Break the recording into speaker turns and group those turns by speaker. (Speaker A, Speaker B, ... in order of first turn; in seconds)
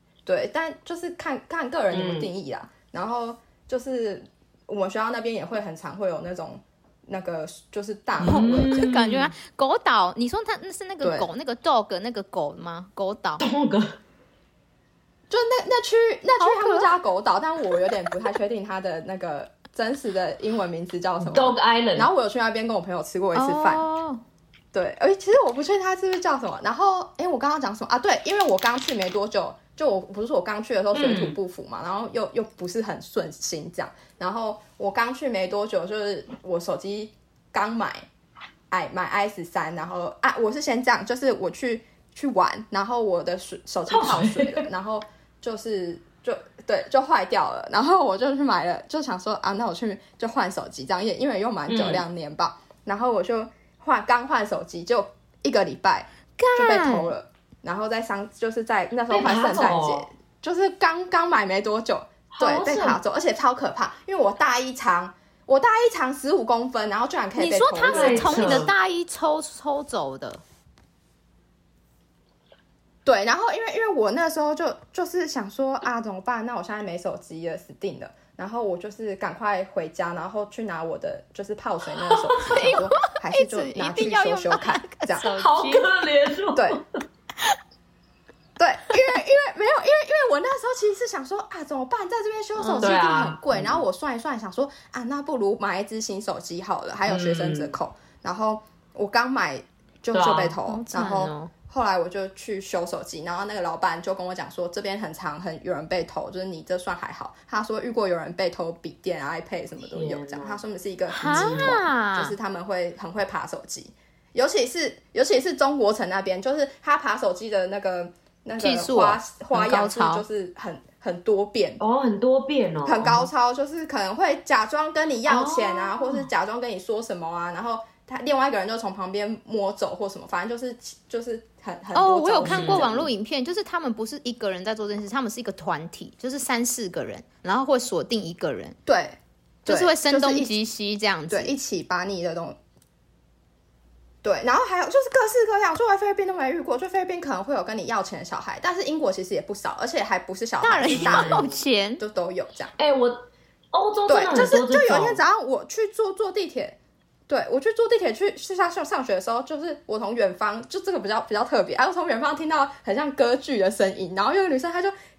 Speaker A: 0.3-8.9, 11.0-11.3, 15.3-23.8, 24.7-38.0, 38.7-68.7, 73.0-85.3, 88.6-121.8, 122.8-133.1, 138.9-140.6, 141.3-142.6, 144.2-151.5, 152.0-152.7, 154.1-156.8, 157.3-164.9
Speaker B: 1.9-2.3, 8.2-9.3, 13.4-14.0, 21.2-22.1, 30.9-31.4, 43.9-44.7, 51.7-52.0, 59.1-60.0, 62.3-63.0, 67.8-68.7, 82.0-82.8, 85.2-87.0, 92.8-93.8, 97.1-97.7, 100.1-100.6, 109.9-110.6, 111.2-111.8, 121.8-123.3, 125.3-126.3, 132.4-133.1, 150.9-151.5, 152.8-155.2
Speaker C: 8.2-13.4, 16.4-16.9, 23.3-24.2, 56.4-57.1, 67.3-70.4, 82.5-85.9, 92.6-93.0, 100.7-101.5, 111.1-112.3, 118.6-120.2, 131.9-138.8, 139.7-141.6, 150.6-152.0